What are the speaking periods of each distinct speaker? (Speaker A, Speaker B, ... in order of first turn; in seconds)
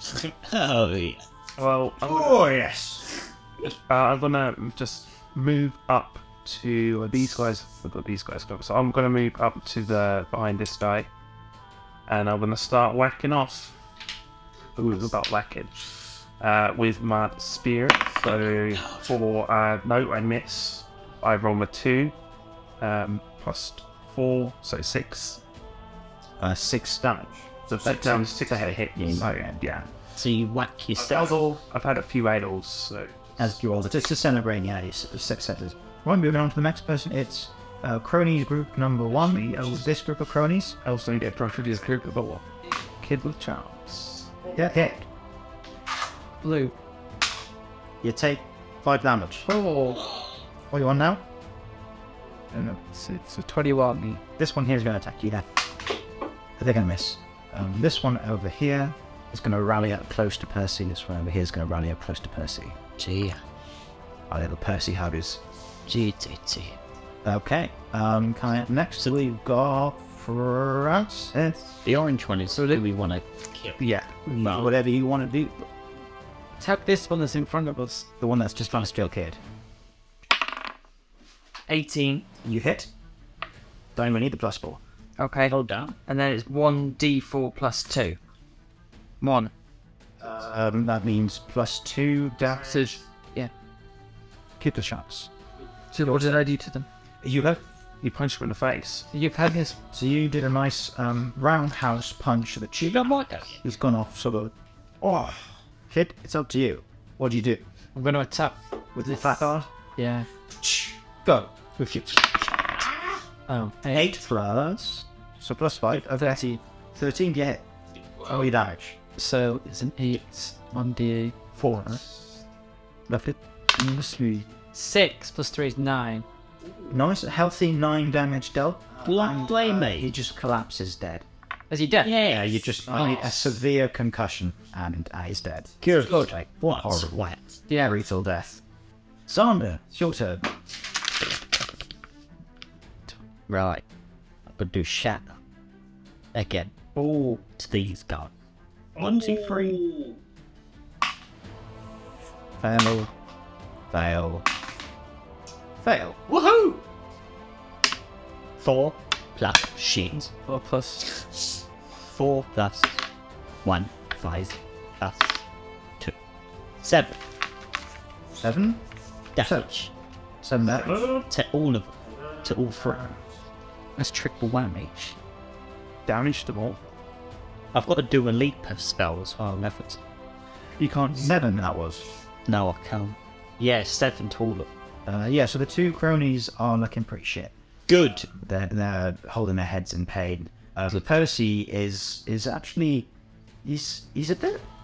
Speaker A: 0.3-1.2, 30.2-31.4, 63.0-63.4, 65.9-66.8, 71.8-73.8, 74.4-74.7, 85.5-86.0, 102.8-103.6, 111.8-112.8, 129.1-130.1, 132.0-133.3, 135.8-137.6, 143.5-143.8, 144.5-145.4, 146.3-146.9, 147.5-148.3, 149.0-150.1, 156.3-156.8, 158.6-160.3, 162.0-163.1, 163.6-165.4, 166.8-167.2, 169.4-169.9, 171.0-173.0, 174.0-175.2, 177.7-180.0, 182.5-184.7, 187.9-188.2
Speaker B: 1.6-2.4, 3.9-11.1, 12.1-13.8, 14.8-15.7, 16.4-22.1, 22.8-25.4, 27.7-29.9, 31.6-33.5, 40.8-42.4, 43.0-44.3, 73.8-74.6, 98.0-99.1, 176.1-176.8
Speaker C: 2.0-3.2, 26.4-29.6, 33.4-40.8, 44.5-45.1, 48.0-49.5, 50.7-51.2, 54.4-55.5, 56.6-62.8, 64.3-65.4, 67.2-71.8, 74.4-75.7, 78.2-79.4, 82.4-82.9, 84.0-84.8, 90.2-93.0, 94.6-95.3, 97.2-97.6, 99.9-107.6, 109.0-109.7, 110.6-111.7, 113.9-117.7, 118.2-119.0, 121.5-122.0, 123.1-124.5, 126.9-131.2, 132.3-137.1, 137.7-138.6, 139.3-140.4, 147.0-147.4, 149.0-149.8, 152.6-153.1, 153.9-154.4, 155.8-156.2, 168.4-168.8, 169.4-169.7, 170.4-171.2, 172.5-173.2, 180.8-182.1, 185.1-193.1, 193.6-194.7
Speaker D: 46.4-46.8, 49.5-50.1, 52.5-54.2, 76.6-78.1, 92.9-93.5, 95.9-96.9, 99.1-99.8, 108.0-108.6, 110.0-110.3, 113.5-114.2, 119.2-121.4, 124.7-126.3, 131.7-132.1, 160.5-161.1
Speaker E: 81.7-82.3, 85.2-85.5, 86.1-88.2, 89.2-89.5, 92.8-93.5, 96.2-96.8